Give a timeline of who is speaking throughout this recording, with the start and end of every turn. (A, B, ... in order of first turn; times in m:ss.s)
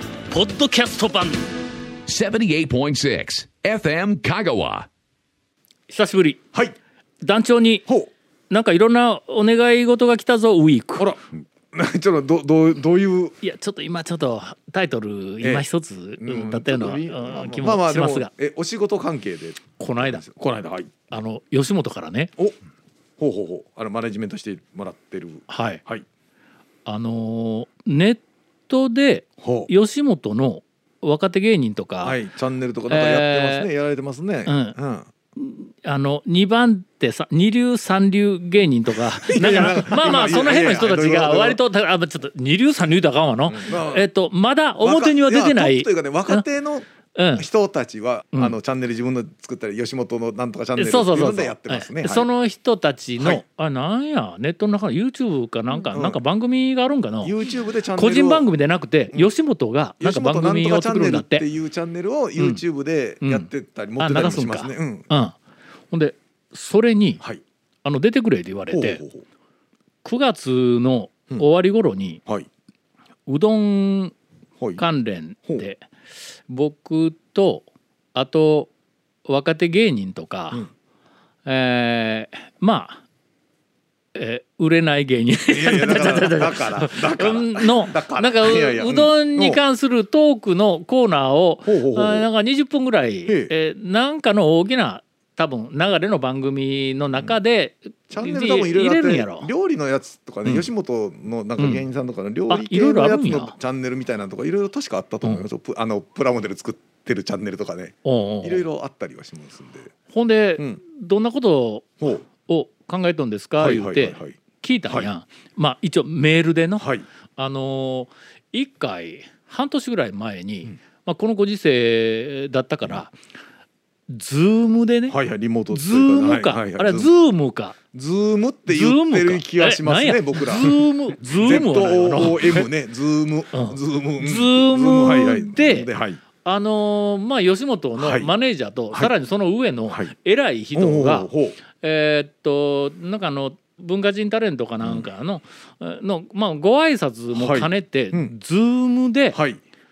0:00.3-0:01.4 A
0:02.1-0:04.9 B
0:05.9-0:06.4 A
0:07.2-0:07.9 A
0:08.5-0:11.1 A
0:11.0-0:13.4 C
0:13.4-0:18.3 A
0:16.2-0:20.9 C
0:19.8-0:20.2 A
0:21.1-0:22.3 A
0:23.2-0:26.0 C
0:25.5-0:25.8 A
0:26.8-0:32.2 A
0:29.4-0:29.7 C
0:32.0-0:35.1 C
0:32.9-0:33.7 A
0:34.4-0:34.8 A
0:35.3-0:46.4 A
0:39.2-0:41.6 C
0:43.5-0:44.1 C
0:44.8-0:52.2 C
0:47.1-0:47.4 A
0:50.8-0:57.3 A
0:55.9-0:56.2 C
0:57.2-0:58.4 C
0:57.9-1:01.4 A
1:00.0-1:05.1 C
1:03.2-1:05.4 A
1:05.9-1:07.2 A
1:07.8-1:09.0 A
1:08.7-1:09.2 C
1:10.0-1:12.2 A
1:13.3-1:14.1 A
1:14.8-1:15.8 A
1:16.5-1:18.7 A
1:19.2-1:20.7 A
1:21.4-1:23.0 A
1:24.1-1:39.5 A
1:25.5-1:29.6 C
1:31.6-1:32.3 C
1:33.2-1:33.5 C
1:38.1-1:49.9 C
1:40.4-1:40.7 A
1:41.6-1:41.8 A
1:42.5-1:43.5 A
1:48.0-1:48.6 A
1:50.1-2:03.1 A
1:53.6-1:55.1 C
1:56.8-1:57.0 C
2:04.1-2:05.2 A
2:05.1-2:07.1 C
2:05.7-2:07.8 A
2:07.9-2:16.2 C
2:08.7-2:12.7 A
2:13.5-2:15.9 A
2:16.4-2:29.4 A
2:18.0-2:18.3 C
2:20.7-2:21.6 C
2:24.8-2:25.1 C
2:27.3-2:28.3 C
2:29.3-2:29.6 C